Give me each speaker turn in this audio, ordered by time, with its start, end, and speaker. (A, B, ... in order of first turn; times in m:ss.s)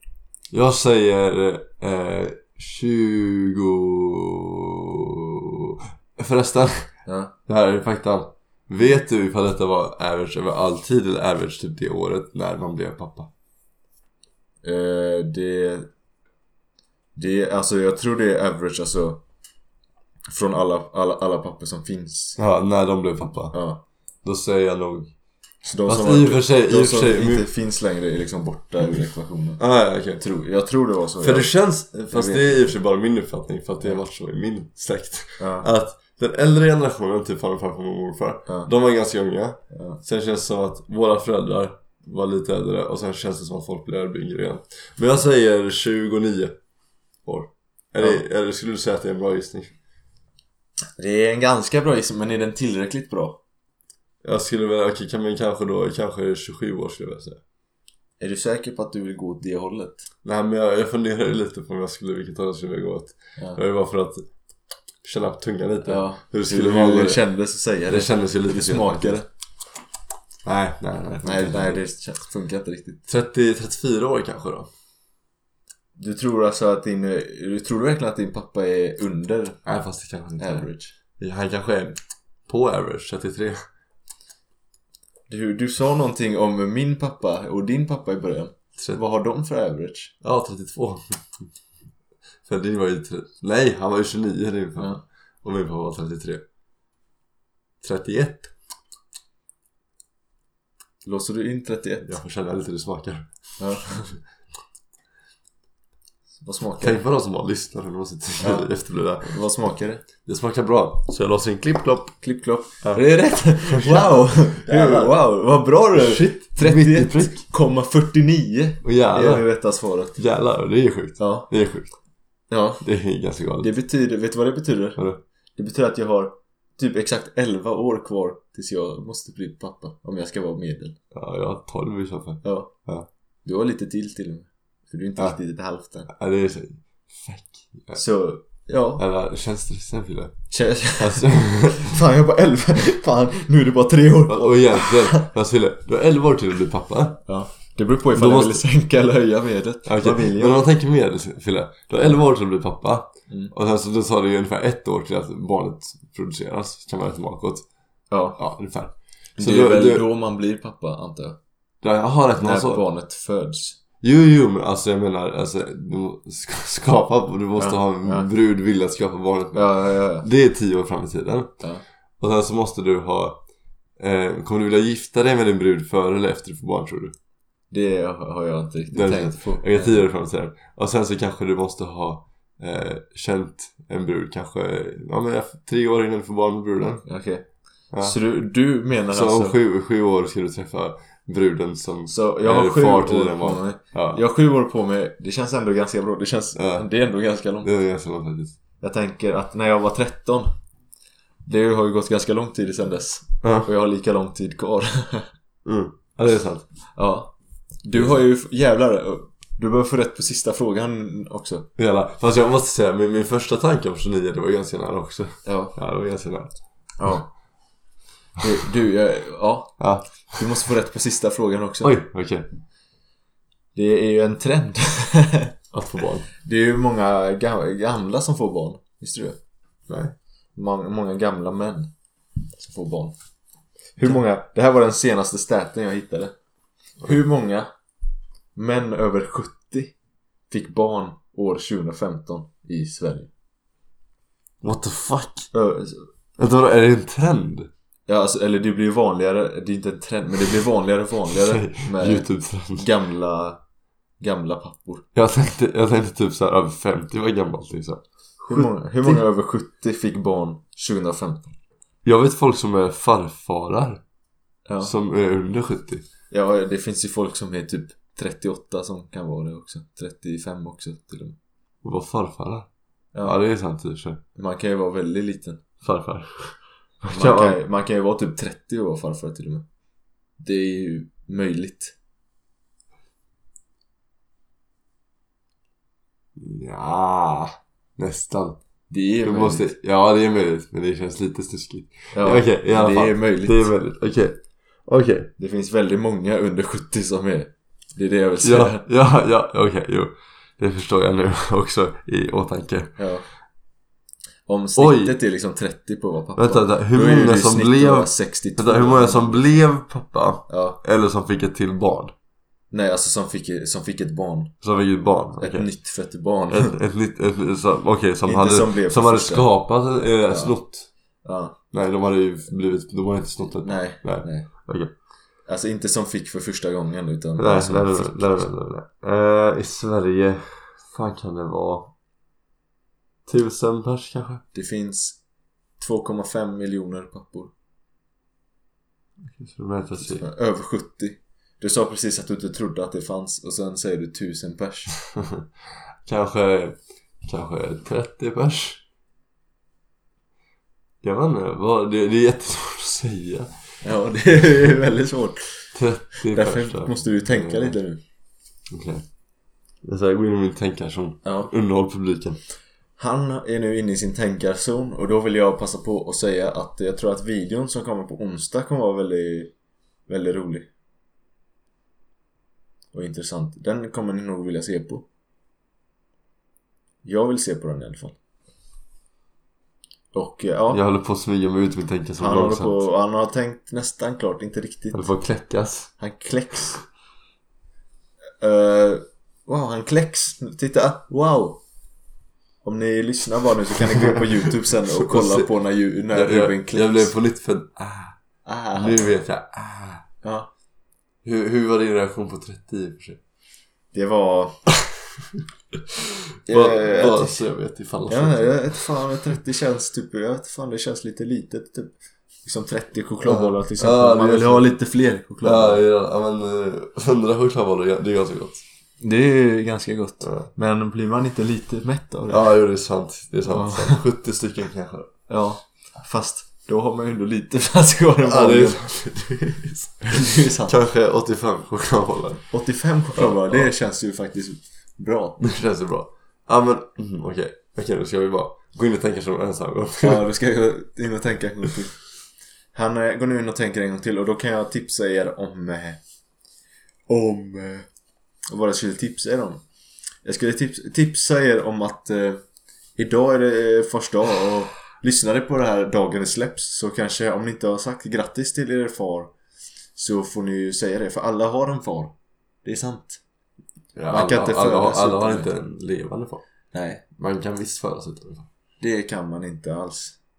0:00.5-0:06.9 A
0:07.0-0:07.3 B
0:07.4-0:13.3 A
0:14.6-0:15.9 B
0:17.2-0:19.2 B
0:20.3-0:22.4 B
0:22.4-0:23.6 A
0:23.5-0:23.8 B
0:24.2-0:25.1 A
0:25.6-0:29.6 B
0:25.8-0:27.5 A
0:29.6-0:30.2 A
0:30.2-0:32.7 B
0:31.2-0:46.6 A
0:35.4-0:35.7 B
0:39.7-0:40.0 B
0:47.2-0:49.7 A
0:51.0-0:53.4 B
0:54.2-0:57.4 A
0:58.2-1:00.0 B
1:00.2-1:04.3 A
1:05.0-1:07.2 A
1:05.8-1:09.3 B
1:07.9-1:09.2 A
1:10.4-1:11.8 A
1:11.2-1:13.0 B
1:13.1-1:14.7 A
1:16.0-1:19.6 B
1:19.6-1:23.6 A
1:20.4-1:21.0 B
1:25.3-1:30.1 B
1:30.2-1:31.5 A
1:32.4-1:36.4 A
1:34.8-1:35.0 B
1:37.8-1:38.5 A
1:41.0-1:42.2 B
1:42.0-1:43.3 A
1:43.6-1:44.2 B
1:46.4-1:47.0 B
1:46.8-1:49.4 A
1:48.4-1:48.7 B
1:49.2-1:50.0 B
1:50.2-1:52.2 A
1:52.2-2:00.2 B
1:52.8-1:55.2 A
1:55.9-1:57.4 A
1:58.8-1:59.4 A
2:00.2-2:01.9 A
2:01.2-2:01.5 B
2:02.5-2:02.8 B
2:02.8-2:03.7 A
2:03.6-2:05.0 B
2:05.0-2:05.2 A
2:05.6-2:11.0 B
2:11.1-2:13.1 A
2:12.4-2:12.7 B
2:13.4-2:16.1 B
2:16.1-2:18.0 A
2:17.9-2:19.0 B
2:19.0-2:21.9 A
2:20.5-2:25.3 B
2:24.3-2:27.2 A
2:27.2-2:30.6 B
2:28.1-2:28.6 A
2:29.8-2:37.6 A
2:38.1-2:38.4 B
2:38.4-2:40.0 A
2:39.4-2:41.4 B
2:41.8-2:42.8 A
2:42.4-2:43.8 B
2:44.0-2:51.5 A
2:47.6-2:48.3 B
2:49.5-2:50.2 B
2:52.2-2:53.4 A
2:54.0-2:57.1 A
2:57.7-3:00.0 B
2:58.9-3:07.0 A
3:07.0-3:07.4 B
3:07.9-3:08.2 A
3:08.0-3:09.6 B
3:09.1-3:14.2 A
3:12.1-3:17.7 B
3:16.6-3:16.8 A
3:17.6-3:18.6 A
3:18.8-3:20.5 B
3:21.4-3:25.3 B
3:23.4-3:23.7 A
3:25.6-3:26.6 A
3:26.9-3:31.7 B
3:27.9-3:28.2 A
3:31.8-3:36.5 A
3:35.4-3:35.8 B
3:37.0-3:37.3 B
3:38.4-3:42.0 B
3:39.8-3:40.6 A
3:41.8-3:42.5 A
3:43.7-3:45.5 B
3:45.7-3:46.3 A
3:46.4-3:49.4 B
3:49.9-3:50.1 A
3:50.6-3:51.9 B
3:52.6-3:53.1 B
3:54.0-3:56.3 B
3:57.0-3:57.7 B
3:58.5-3:59.9 B
4:00.5-4:03.3 B
4:04.6-4:05.5 A
4:05.5-4:06.1 B
4:06.4-4:07.7 A
4:08.1-4:13.6 B
4:11.3-4:12.9 A
4:14.2-4:15.0 B
4:15.1-4:19.2 A
4:18.4-4:21.5 B
4:22.0-4:24.0 A
4:24.6-4:24.9 B
4:24.8-4:26.0 A
4:26.3-4:31.4 B
4:31.8-4:32.7 A
4:33.2-4:34.2 A
4:34.3-4:35.6 B
4:35.8-4:37.6 A
4:37.1-4:39.6 B
4:40.4-4:42.0 B
4:46.4-4:48.6 A
4:48.9-4:49.7 B
4:49.2-4:55.3 A
4:52.1-4:53.7 B
4:55.4-4:58.8 B
4:58.4-5:03.0 A
5:03.0-5:03.2 B
5:04.5-5:09.4 B
5:04.8-5:05.2 A
5:06.4-5:12.1 A
5:10.5-5:10.8 B
5:12.7-5:14.5 B
5:14.6-5:15.7 A
5:15.4-5:16.8 B
5:16.5-5:20.9 A
5:18.2-5:19.5 B
5:20.3-5:20.6 B
5:21.2-5:21.6 B
5:21.7-5:24.9 A
5:23.6-5:24.5 B
5:25.4-5:28.5 B
5:27.4-5:31.9 A
5:33.2-5:34.4 A
5:34.5-5:35.2 B
5:35.8-5:37.5 B
5:39.3-5:40.2 A
5:40.0-5:45.0 B
5:45.2-5:45.4 A
5:46.0-5:48.8 A
5:51.0-5:53.5 A
5:53.8-5:58.0 B
5:55.7-5:57.8 A
5:58.7-5:59.0 A
5:59.8-6:02.4 A
6:01.2-6:01.5 B
6:03.0-6:09.5 B
6:10.1-6:10.7 B
6:12.9-6:15.0 B
6:17.0-6:18.2 B
6:20.1-6:20.8 B
6:20.7-6:22.8 A
6:22.2-6:25.0 B
6:24.9-6:25.9 A
6:26.0-6:26.8 B
6:28.4-6:31.6 B
6:32.6-6:37.1 B
6:34.9-6:35.5 A
6:36.1-6:38.2 A
6:38.4-6:39.1 B
6:38.7-6:40.0 A
6:40.2-6:40.5 B
6:41.2-6:43.2 A
6:43.9-6:44.6 B
6:46.5-6:47.4 B
6:46.5-6:48.8 A
6:48.1-6:55.8 B
6:53.2-6:54.7 A
6:55.4-6:58.6 A
6:59.0-7:02.5 B
7:00.2-7:00.5 A
7:02.3-7:05.1 A
7:03.5-7:04.0 B
7:05.3-7:08.8 B
7:08.2-7:12.5 A
7:10.0-7:10.8 B
7:12.5-7:15.4 B
7:13.2-7:13.7 A
7:15.4-7:20.3 A
7:20.0-7:22.0 B
7:22.7-7:26.0 B
7:27.1-7:27.9 B
7:28.5-7:29.6 B
7:30.2-7:32.4 B
7:33.0-7:39.3 B
7:39.9-7:43.2 B
7:43.9-7:46.4 A
7:44.1-7:45.5 B
7:46.7-7:47.0 B
7:47.2-7:48.5 A
7:48.8-7:50.2 B